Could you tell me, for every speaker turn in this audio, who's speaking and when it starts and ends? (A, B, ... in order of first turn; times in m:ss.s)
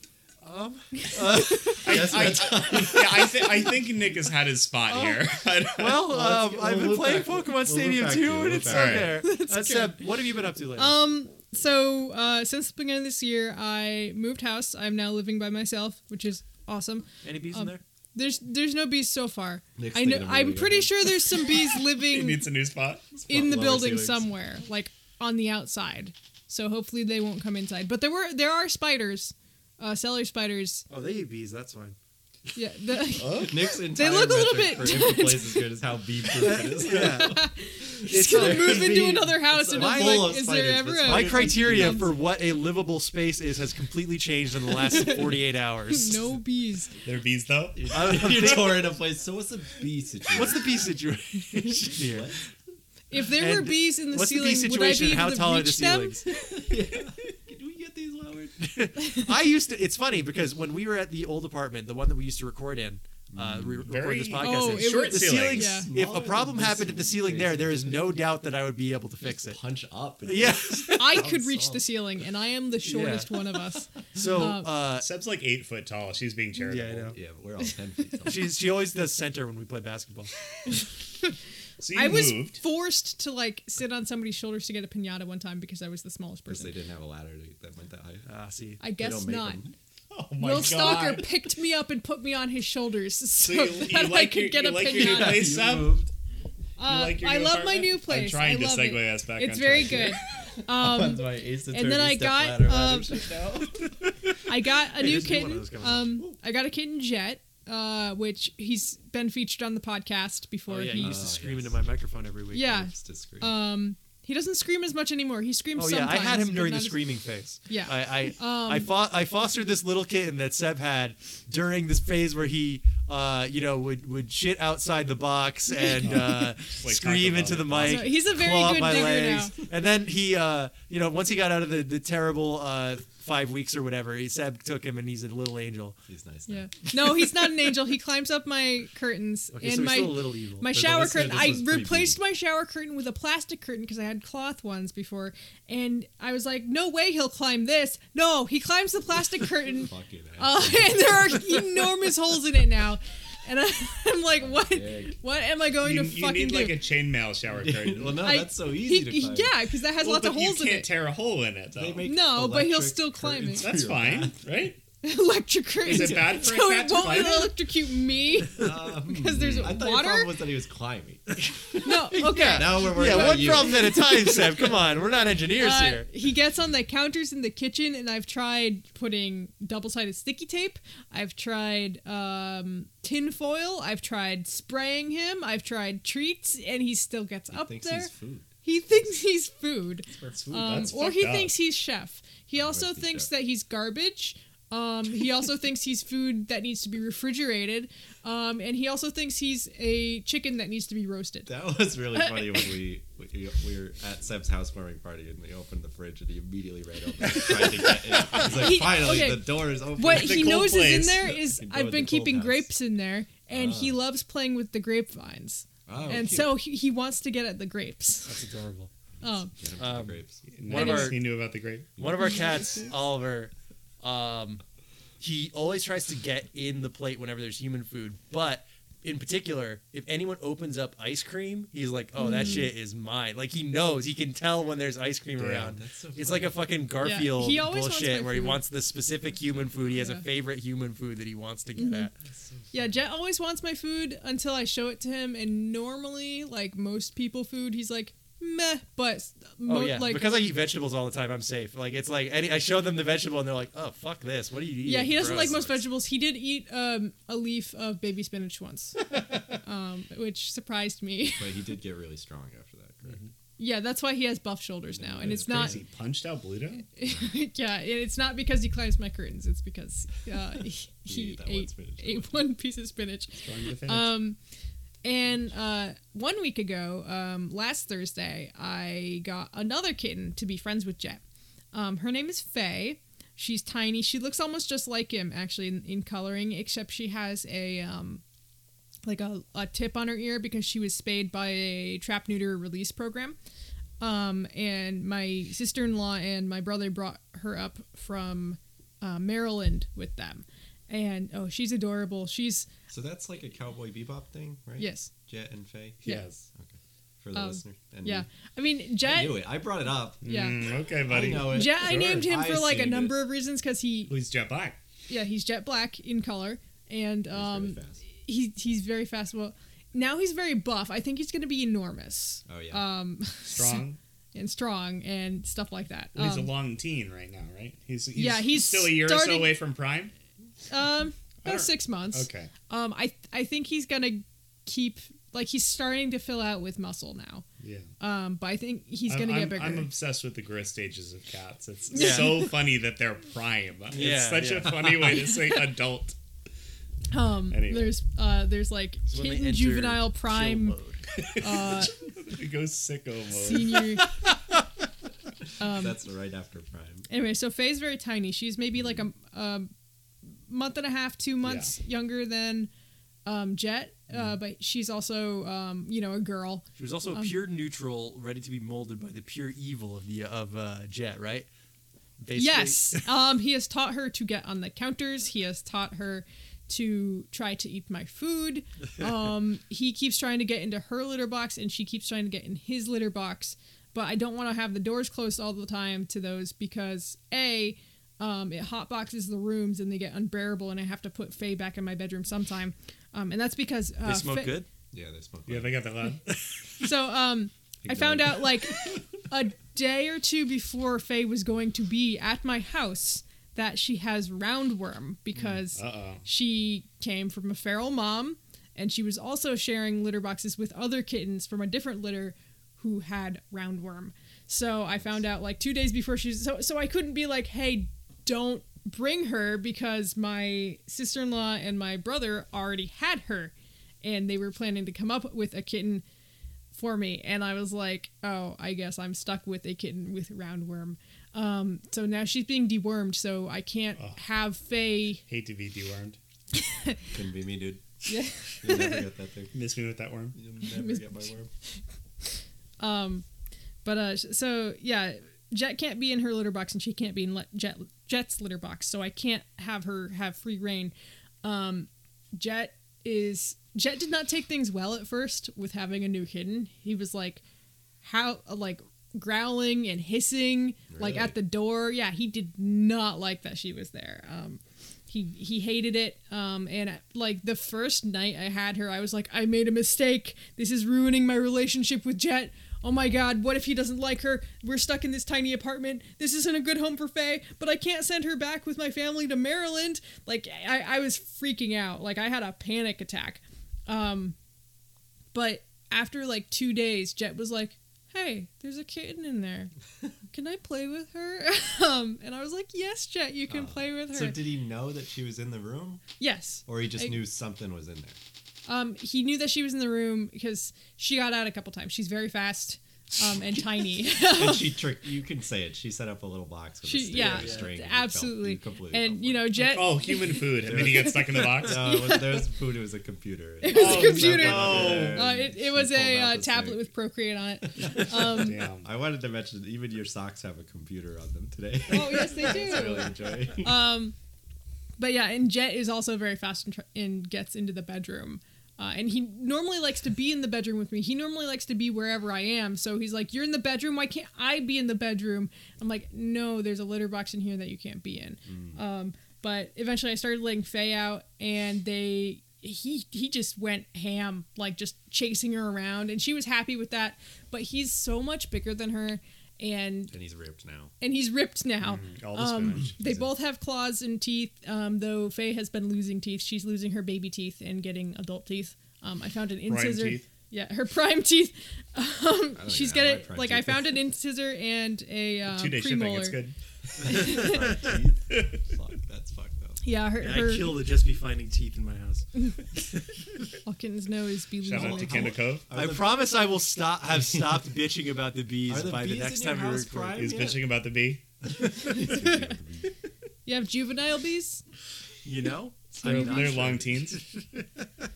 0:00.4-0:03.1 A
0:01.2-0:03.4 B
0:01.8-0:06.0 C
0:04.9-0:05.2 A
0:05.7-0:11.0 A
0:06.1-0:09.2 B
0:08.7-0:09.2 C
0:09.2-0:10.0 D
0:10.8-0:22.5 D
0:17.2-0:17.8 A
0:19.8-0:20.9 B
0:21.9-0:23.0 C
0:23.2-0:24.3 B
0:23.3-0:30.9 D
0:30.9-0:32.0 A
0:32.6-0:35.7 D
0:33.2-0:42.1 B
0:36.3-0:37.4 A
0:36.4-0:42.1 D
0:38.1-0:39.1 A
0:39.7-0:40.4 A
0:41.0-0:46.3 A
0:44.8-0:47.0 D
0:47.0-0:48.5 C
0:47.8-0:50.7 B
0:47.9-0:48.8 A
0:50.3-0:52.3 A
0:51.9-0:52.4 B
0:53.1-0:56.3 D
0:53.3-0:56.3 A
0:56.3-0:58.6 B
0:58.6-1:09.6 A
1:03.3-1:03.9 B
1:03.9-1:05.8 C
1:04.4-1:05.9 D
1:05.8-1:08.1 B
1:09.4-1:11.8 B
1:10.2-1:11.4 A
1:11.0-1:14.7 D
1:12.8-1:13.5 A
1:14.1-1:15.1 A
1:15.0-1:17.1 C
1:16.6-1:17.2 A
1:17.1-1:18.5 B
1:18.2-1:20.3 A
1:21.8-1:22.6 C
1:22.0-1:26.7 D
1:26.5-1:28.3 B
1:28.3-1:28.8 A
1:28.8-1:29.6 D
1:29.0-1:29.7 B
1:30.1-1:31.3 C
1:30.4-1:35.6 D
1:33.4-1:36.0 C
1:34.8-1:36.1 B
1:36.8-1:43.3 D
1:36.8-1:40.2 C
1:39.8-1:43.9 B
1:43.9-1:44.4 A
1:44.5-1:51.2 D
1:44.9-1:46.3 A
1:50.7-1:52.9 A
1:51.0-1:51.9 B
1:52.5-1:57.1 D
1:52.6-1:53.6 B
1:55.8-2:16.0 A
1:57.7-1:58.9 D
2:06.0-2:08.4 C
2:07.8-2:09.6 D
2:08.6-2:09.3 B
2:16.1-2:16.9 B
2:16.5-2:36.8 D
2:19.5-2:21.5 A
2:20.7-2:22.2 B
2:29.7-2:31.4 B
2:34.3-2:35.2 B
2:35.8-2:38.2 C
2:37.6-2:39.5 B
2:38.2-2:40.9 D
2:40.0-2:42.1 C
2:41.8-2:44.4 B
2:42.0-2:43.7 D
2:43.6-2:44.8 C
2:45.0-2:50.4 D
2:45.8-2:47.6 C
2:45.9-2:46.3 B
2:48.6-2:54.7 B
2:49.4-2:49.8 C
2:51.4-2:56.1 A
2:51.8-2:54.4 D
2:55.6-3:08.1 D
3:07.5-3:08.5 B
3:08.6-3:21.5 D
3:10.1-3:11.5 C
3:12.6-3:13.3 B
3:21.5-3:30.7 B
3:22.2-3:22.7 D
3:27.3-3:38.4 D
3:30.0-3:31.4 C
3:31.4-3:32.7 B
3:33.5-3:34.0 B
3:35.9-3:36.6 B
3:38.2-3:38.9 A
3:39.2-3:39.5 D
3:39.6-3:40.4 B
3:39.8-3:41.2 A
3:40.5-3:41.9 C
3:40.7-3:41.2 D
3:42.0-3:42.3 B
3:42.0-3:44.6 A
3:45.2-4:02.1 A
3:52.2-3:52.7 D
3:55.4-3:55.7 C
3:55.6-3:56.7 B
3:57.0-3:58.6 D
3:59.9-4:00.2 D
4:01.7-4:02.1 D
4:02.2-4:02.7 B
4:02.7-4:10.4 D
4:09.7-4:15.8 A
4:14.8-4:21.6 D
4:15.1-4:15.8 B
4:21.4-4:23.2 B
4:23.6-4:25.8 D
4:24.9-4:25.8 B
4:25.2-4:26.8 C
4:26.9-4:34.4 D
4:31.1-4:32.4 B
4:33.4-4:34.2 C
4:35.0-4:41.2 D
4:41.7-4:48.2 D
4:49.0-4:53.4 D
4:54.0-5:02.7 D
5:02.9-5:08.3 B
5:04.8-5:05.1 D
5:06.0-5:06.4 C
5:07.3-5:09.4 D
5:09.0-5:10.2 B
5:10.2-5:12.3 C
5:10.3-5:10.6 D
5:11.1-5:13.2 B
5:11.3-5:14.1 D
5:14.1-5:14.8 C
5:15.1-5:26.5 D
5:17.3-5:18.0 B
5:22.5-5:22.9 B
5:23.5-5:24.0 C
5:26.2-5:30.1 C
5:28.2-5:29.6 D
5:30.7-5:37.4 D
5:31.4-5:32.5 C
5:37.6-5:37.9 C
5:38.0-5:39.9 D
5:39.1-5:46.2 C
5:41.9-5:42.5 D
5:42.0-5:42.4 A
5:43.9-5:45.1 A
5:47.1-5:50.8 D
5:47.5-5:48.0 C
5:49.1-5:51.0 A
5:51.2-5:53.9 C
5:51.4-5:51.9 D
5:53.3-5:54.1 D
5:55.6-5:56.0 D
5:55.6-5:57.1 B
5:57.1-5:59.7 D
5:58.8-5:59.0 B
6:00.5-6:02.7 D
6:01.4-6:01.7 C
6:03.2-6:07.4 D
6:06.8-6:11.5 A
6:12.2-6:13.1 A
6:12.4-6:34.6 D
6:34.0-6:34.7 A
6:34.9-6:35.8 B
6:35.5-6:36.2 C
6:36.8-7:06.0 D
6:37.9-6:38.5 B
6:45.4-6:46.2 C
7:06.7-7:15.2 D
7:15.3-7:16.2 C
7:16.6-7:17.0 D
7:17.1-7:17.8 B
7:18.1-7:19.1 D
7:18.6-7:19.5 B
7:19.5-7:20.4 C
7:20.3-7:21.5 B
7:20.6-7:21.1 D
7:22.8-7:23.2 D
7:23.8-7:37.4 D
7:38.0-8:04.4 D
7:40.9-7:41.4 B
8:05.3-8:09.7 D
8:10.3-8:14.4 D
8:13.5-8:16.0 B
8:16.2-8:17.2 D
8:16.7-8:18.2 B
8:18.7-8:24.8 D
8:24.2-8:29.5 B
8:26.8-8:32.5 D
8:29.5-8:31.9 C
8:30.6-8:36.9 B
8:33.6-8:38.6 D
8:33.7-8:35.3 C
8:38.1-8:38.9 C
8:38.8-8:43.9 B
8:41.9-8:44.2 D
8:45.0-9:10.1 D
8:58.5-8:58.8 B
9:10.1-9:10.9 B
9:11.0-9:26.4 D
9:11.8-9:13.0 C
9:12.8-9:13.3 B
9:19.7-9:20.3 C
9:22.6-9:24.0 B
9:25.5-9:26.6 C
9:27.0-9:29.8 B
9:27.0-9:27.7 D
9:27.0-9:28.0 A
9:29.8-9:30.8 D
9:30.2-9:32.3 A
9:33.6-9:35.4 D
9:34.6-9:35.6 C
9:34.7-9:36.2 B
9:35.7-9:40.3 A
9:38.7-9:40.6 B
9:40.1-9:41.2 C
9:41.8-9:42.9 B
9:41.8-9:42.5 D
9:43.4-9:44.6 D
9:45.2-9:47.9 A
9:46.0-9:47.0 B
9:46.0-9:47.2 C